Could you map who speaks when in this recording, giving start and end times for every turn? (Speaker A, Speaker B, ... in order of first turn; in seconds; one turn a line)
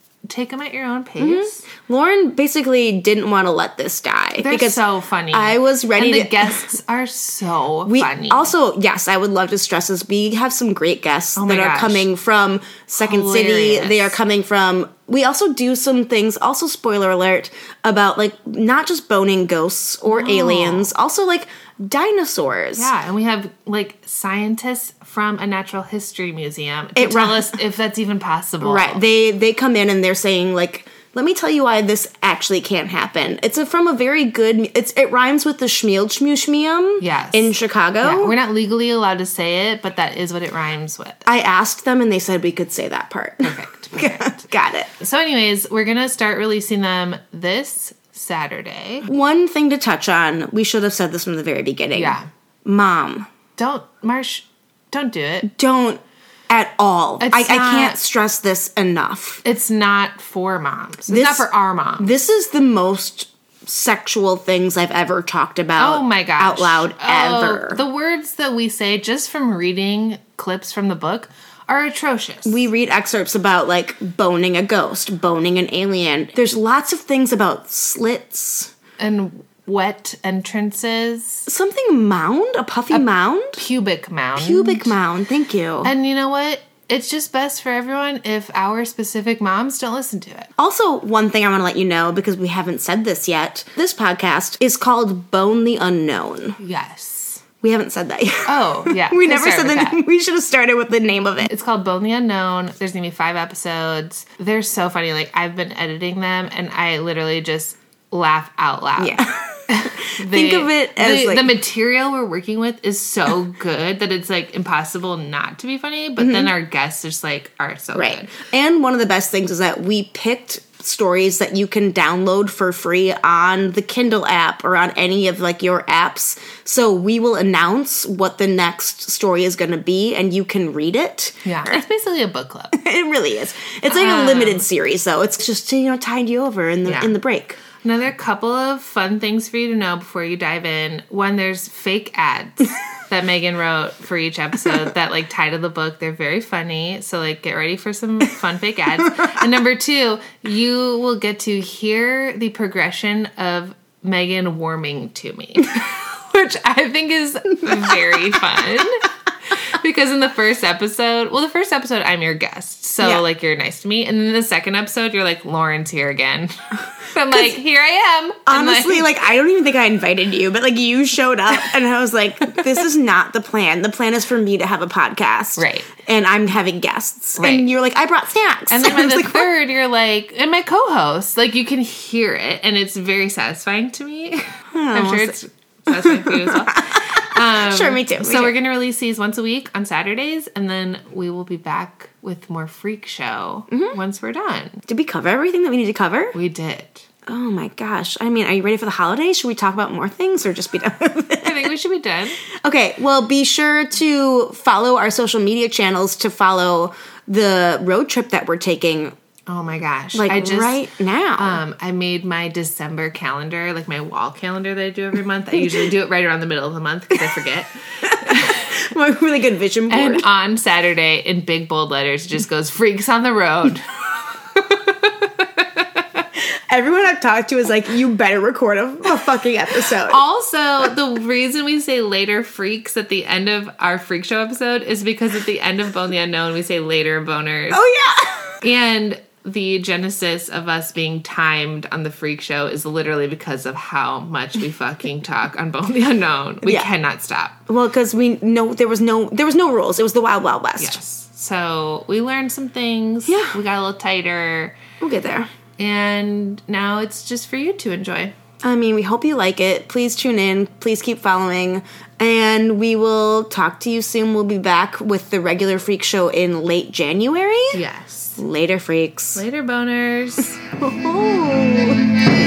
Speaker A: 0.3-1.6
Speaker B: 1.2-6.7
Speaker A: 4.4-8.5
Speaker B: 7.9-22.9
Speaker A: 11.4-12.1
Speaker A: 13.0-14.2
Speaker A: 20.1-20.9
Speaker A: 22.8-29.0
Speaker B: 27.0-27.6
Speaker B: 28.6-38.4
Speaker A: 37.0-41.2
Speaker B: 41.2-44.9
Speaker A: 43.4-44.4
Speaker A: 45.0-49.1
Speaker B: 49.1-53.3
Speaker A: 52.0-52.3
Speaker A: 53.6-55.5
Speaker B: 55.5-59.4
Speaker A: 57.2-58.0
Speaker A: 59.4-62.1
Speaker B: 61.1-61.5
Speaker B: 62.0-67.8
Speaker A: 65.8-72.7
Speaker B: 72.5-78.7
Speaker A: 79.0-81.5
Speaker B: 81.5-83.6
Speaker A: 83.6-85.0
Speaker B: 84.4-85.9
Speaker A: 85.8-90.5
Speaker B: 90.6-96.6
Speaker A: 96.6-97.4
Speaker B: 97.6-101.5
Speaker A: 98.5-100.0
Speaker A: 101.5-118.3
Speaker B: 109.0-111.5
Speaker B: 116.2-116.5
Speaker B: 118.0-131.8
Speaker A: 131.4-132.8
Speaker B: 132.7-137.6
Speaker A: 133.9-134.7
Speaker A: 136.8-137.2
Speaker A: 137.8-169.1
Speaker B: 168.5-179.5
Speaker A: 175.6-175.9
Speaker A: 177.4-177.7
Speaker A: 178.7-194.8
Speaker B: 184.7-185.4
Speaker B: 185.9-188.6
Speaker B: 193.7-194.0
Speaker B: 194.9-196.3
Speaker A: 196.3-197.1
Speaker B: 197.3-201.7
Speaker A: 201.4-202.4
Speaker B: 202.4-209.1
Speaker A: 209.5-210.8
Speaker B: 210.1-211.6
Speaker A: 211.4-218.8
Speaker B: 218.0-220.3
Speaker A: 219.9-226.2
Speaker B: 226.4-230.2
Speaker A: 230.1-237.8
Speaker B: 237.7-238.6
Speaker A: 238.6-247.6
Speaker B: 246.6-246.9
Speaker B: 247.7-251.0
Speaker A: 250.8-254.8
Speaker B: 253.3-253.6
Speaker B: 255.0-255.5
Speaker A: 255.8-258.4
Speaker B: 258.6-267.8
Speaker A: 267.7-268.4
Speaker B: 268.4-269.4
Speaker A: 269.4-270.6
Speaker B: 270.8-272.1